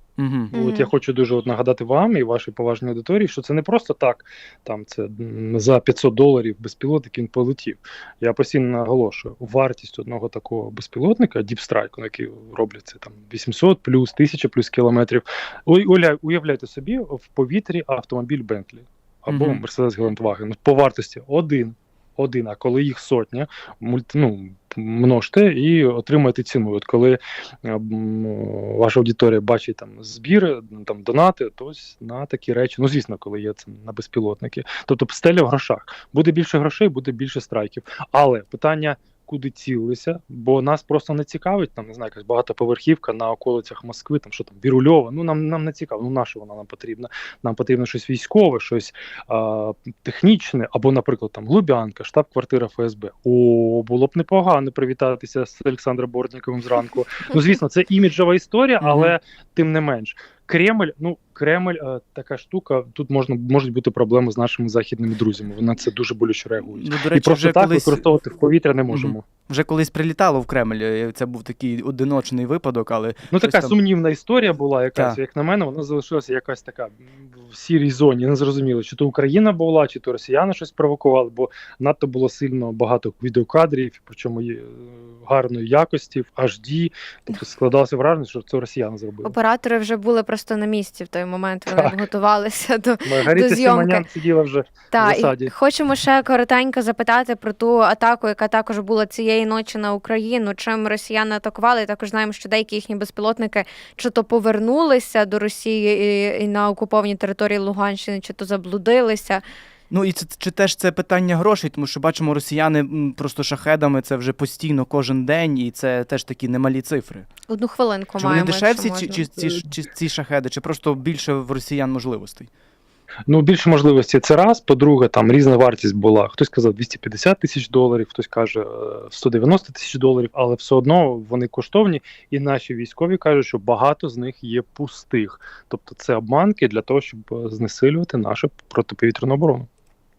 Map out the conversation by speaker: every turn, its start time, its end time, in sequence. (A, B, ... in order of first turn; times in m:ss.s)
0:00.2-0:00.5 A
0:00.5-1:09.2 B
0:00.5-0:00.9 C
0:19.3-0:19.6 A
0:58.8-0:59.2 A
1:06.7-1:08.0 A
1:08.9-1:13.8 A
1:13.3-1:29.4 B
1:29.2-1:34.0 C
1:31.7-1:32.0 B
1:33.0-1:35.5 B
1:34.9-1:49.4 C
1:49.9-1:57.3 A
1:57.5-1:59.3 C
1:58.2-2:02.5 A
2:03.3-2:19.7 B